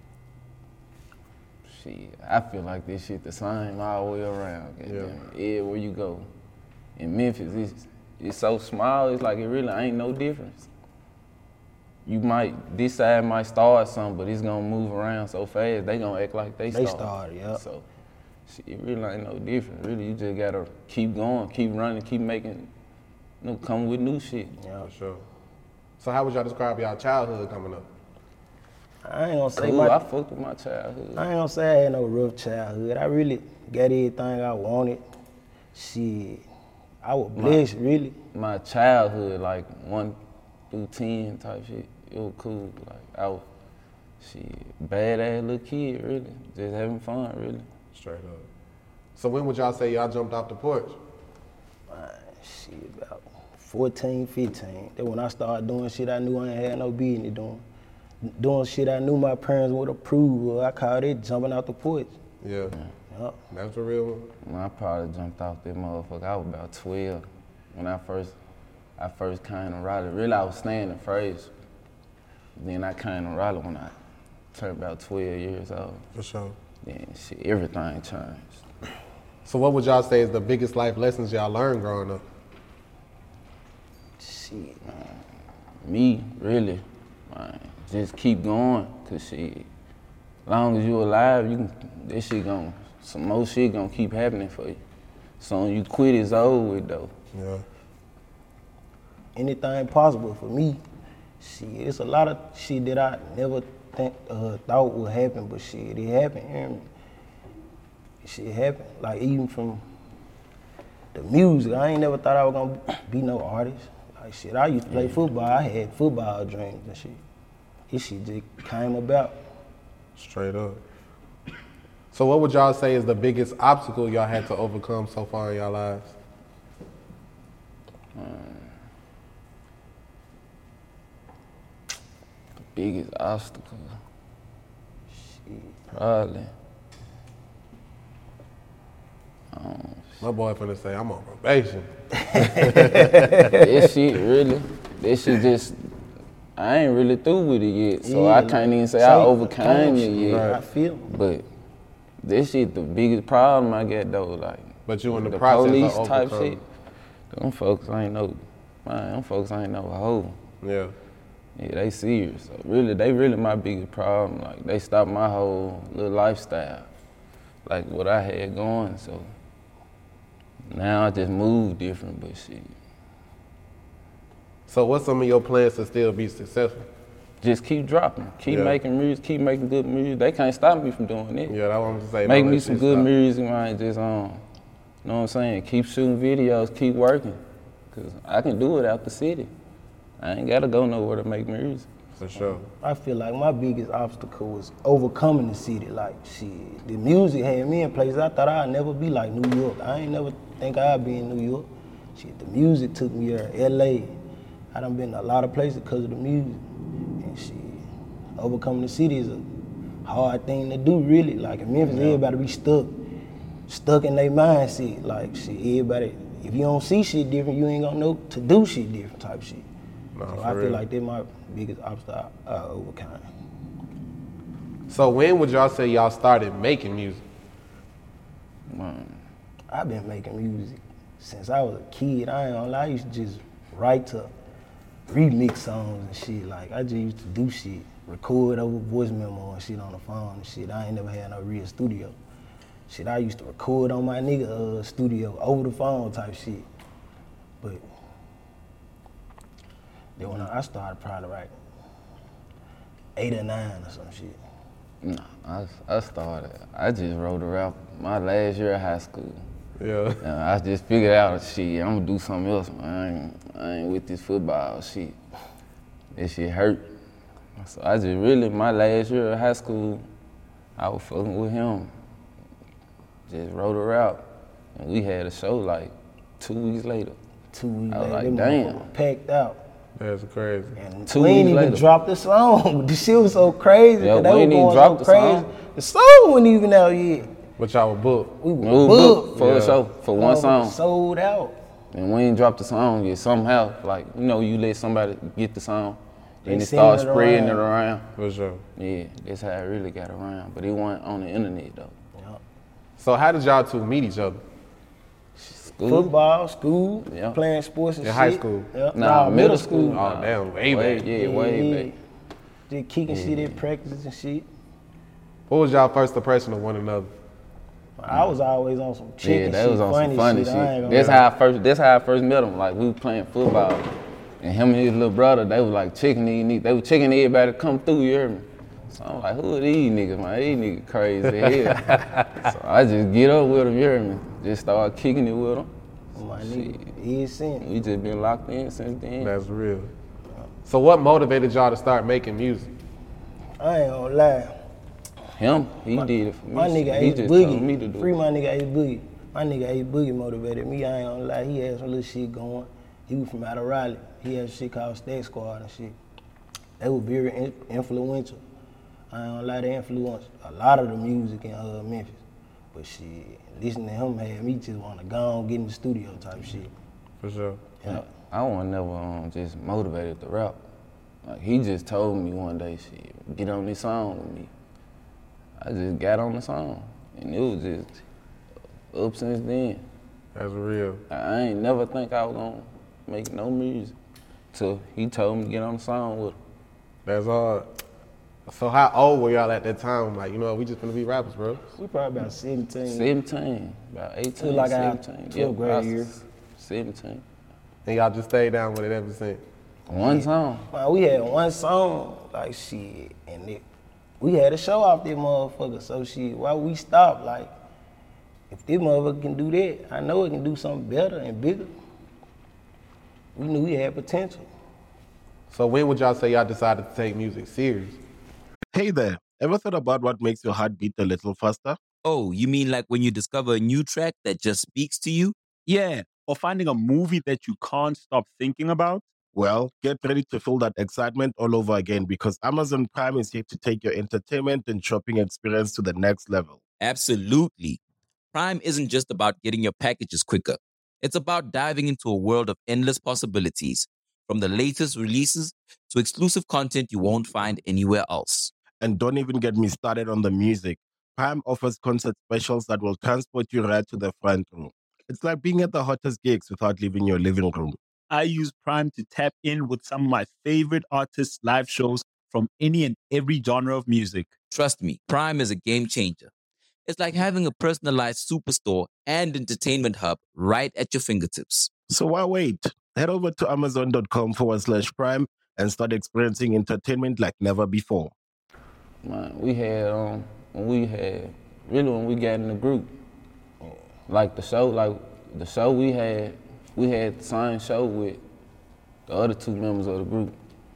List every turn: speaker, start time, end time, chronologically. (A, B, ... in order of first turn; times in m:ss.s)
0:01.7-0:06.3 A
0:04.8-0:05.2 B
0:07.0-0:10.7 A
0:12.0-0:17.8 A
0:16.7-0:17.6 C
0:18.5-0:22.7 A
0:23.4-0:24.5 A
0:24.6-0:24.9 C
0:24.8-0:25.2 B
0:26.0-0:27.9 B
0:29.0-0:30.0 C
0:29.6-0:31.2 A
0:31.2-0:35.0 C
0:35.7-0:36.4 C
0:37.0-0:38.1 C
0:37.4-0:37.6 A
0:38.3-0:40.2 A
0:40.7-0:43.4 A
0:44.2-0:47.7 A
0:47.9-0:48.5 B
0:49.2-0:51.0 B
0:51.9-0:57.6 C
0:58.2-1:02.1 C
1:02.4-1:02.7 B
1:03.1-1:03.4 C
1:03.5-1:04.3 B
1:04.4-1:08.3 A
1:09.0-1:11.5 A
1:12.6-1:13.9 A
1:14.5-1:16.0 A
1:16.1-1:16.6 B
1:16.8-1:18.6 A
1:19.4-1:22.2 B
1:24.2-1:24.8 C
1:24.9-1:25.2 A
1:25.8-1:29.7 A
1:30.4-1:34.8 A
1:35.4-1:37.1 A
1:37.3-1:37.6 B
1:39.3-1:40.8 C
1:41.4-1:46.9 C
1:48.2-1:49.8 C
1:51.1-1:57.2 C
1:54.9-1:55.2 A
1:57.9-1:59.4 C
2:00.2-2:00.8 B
2:02.1-2:06.2 B
2:08.1-2:08.7 A
2:12.7-2:14.0 A
2:15.2-2:15.8 C
2:15.9-2:16.5 A
2:19.5-2:20.1 A
2:20.2-2:23.5 B
2:22.2-2:23.7 C
2:23.5-2:25.8 A
2:26.6-2:30.5 A
2:28.0-2:31.1 C
2:30.2-2:30.6 B
2:31.1-2:31.4 A
2:32.2-2:36.6 A
2:34.9-2:36.6 B
2:37.3-2:40.4 A
2:40.6-2:40.9 B
2:41.6-2:46.9 A
2:47.6-2:49.3 A
2:50.7-2:52.7 A
2:54.7-2:56.9 B
2:57.4-3:01.5 A
2:58.5-2:58.8 B
3:01.5-3:03.1 B
3:02.2-3:04.4 A
3:05.0-3:07.4 A
3:07.9-3:09.5 A
3:10.2-3:11.9 A
3:12.1-3:12.7 B
3:12.8-3:24.2 C
3:24.7-3:26.6 C
3:27.2-3:27.8 C
3:28.4-3:29.4 C
3:30.0-3:33.0 C
3:31.9-3:32.2 A
3:33.7-3:39.7 C
3:40.2-3:40.8 B
3:40.3-3:43.2 C
3:44.9-3:47.2 B
3:48.7-3:49.2 A
3:49.7-3:54.3 C
3:55.1-4:02.1 C
4:02.9-4:06.7 C
4:10.2-4:11.5 C
4:13.2-4:14.4 C
4:15.0-4:19.4 A
4:19.8-4:20.2 B
4:20.2-4:25.2 A
4:26.1-4:26.8 A
4:27.6-4:30.0 A
4:30.8-4:31.9 A
4:33.3-4:37.2 A
4:37.5-4:39.6 C
4:37.9-4:38.9 A
4:40.0-4:40.8 B
4:40.8-4:47.3 C
4:41.1-4:41.9 A
4:44.0-4:45.5 A
4:47.6-4:48.4 B
4:48.4-4:49.5 C
4:48.6-4:50.8 A
4:49.4-4:49.8 B
4:50.1-4:51.6 C
4:51.9-4:58.0 A
4:56.4-4:57.7 C
4:58.2-4:58.6 B
4:58.8-5:01.9 A
5:02.2-5:02.4 C
5:03.0-5:04.4 B
5:05.4-5:06.1 A
5:05.8-5:10.0 C
5:07.1-5:07.4 A
5:08.0-5:08.7 B
5:08.9-5:11.9 A
5:09.8-5:11.0 B
5:11.0-5:12.0 C
5:12.7-5:14.5 C
5:13.1-5:13.6 A
5:15.5-5:17.1 B
5:18.0-5:21.2 C
5:19.2-5:23.9 A
5:20.9-5:21.2 B
5:24.4-5:35.7 A
5:31.4-5:32.3 B
5:36.1-5:37.6 C
5:36.4-5:36.9 A
5:37.6-5:39.3 A
5:39.2-5:39.9 B
5:40.6-5:42.7 B
5:43.6-5:44.6 C
5:45.4-5:48.1 A
5:46.0-5:56.0 C
5:56.8-5:58.4 C
5:59.1-6:02.2 C
6:02.7-6:06.7 C
6:07.2-6:07.6 B
6:07.9-6:10.6 A
6:11.2-6:14.5 A
6:15.6-6:18.0 A
6:18.9-6:19.8 A
6:20.3-6:21.0 B
6:21.1-6:23.9 A
6:24.5-6:26.4 A
6:27.0-6:27.7 B
6:28.5-6:31.7 B
6:31.8-6:33.1 C
6:32.8-6:37.2 A
6:34.4-6:36.1 C
6:37.8-6:39.4 B
6:39.9-6:40.7 A
6:39.9-6:43.6 C
6:44.2-6:47.5 C
6:48.5-6:51.7 C
6:53.4-6:54.5 C
6:55.5-6:58.0 B
6:58.7-7:01.8 D
7:02.0-7:05.3 E
7:05.6-7:09.0 F
7:09.3-7:16.6 D
7:16.8-7:17.8 E
7:18.3-7:28.5 E
7:28.8-7:37.8 D
7:38.1-7:44.3 F
7:44.5-7:46.3 E
7:46.8-7:51.7 E
7:51.9-7:58.1 D
7:59.0-8:02.9 A
8:04.1-8:08.2 A
8:09.1-8:10.3 A